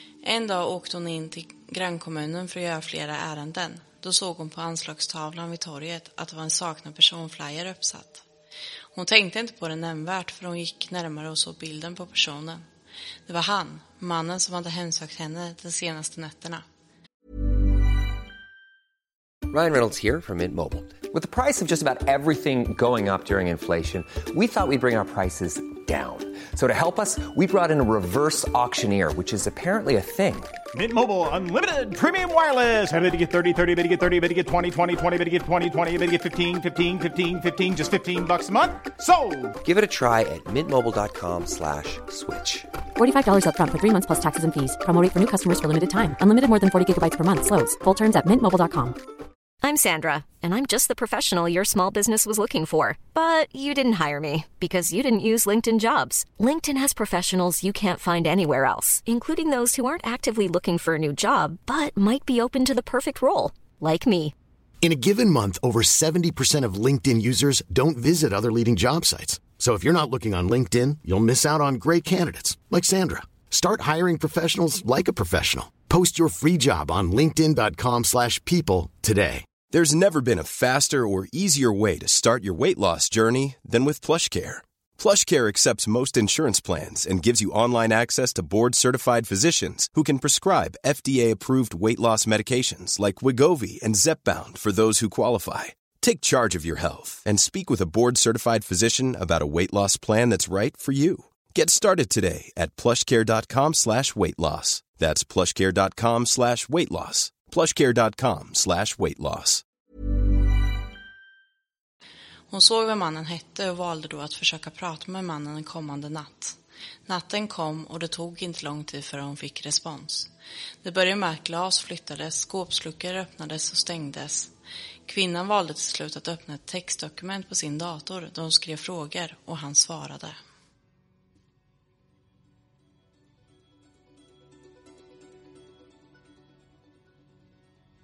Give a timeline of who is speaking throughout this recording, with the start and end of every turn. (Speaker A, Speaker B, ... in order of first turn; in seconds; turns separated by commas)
Speaker A: 0.2-8.2, Speaker A: 8.9-12.7, Speaker A: 13.3-16.6, Speaker B: 19.5-30.6, Speaker C: 30.7-39.6, Speaker B: 39.6-42.7, Speaker D: 43.0-49.0, Speaker E: 49.6-64.3, Speaker F: 64.8-79.5, Speaker G: 79.7-109.6, Speaker A: 112.5-120.3, Speaker A: 120.8-124.5, Speaker A: 125.1-130.4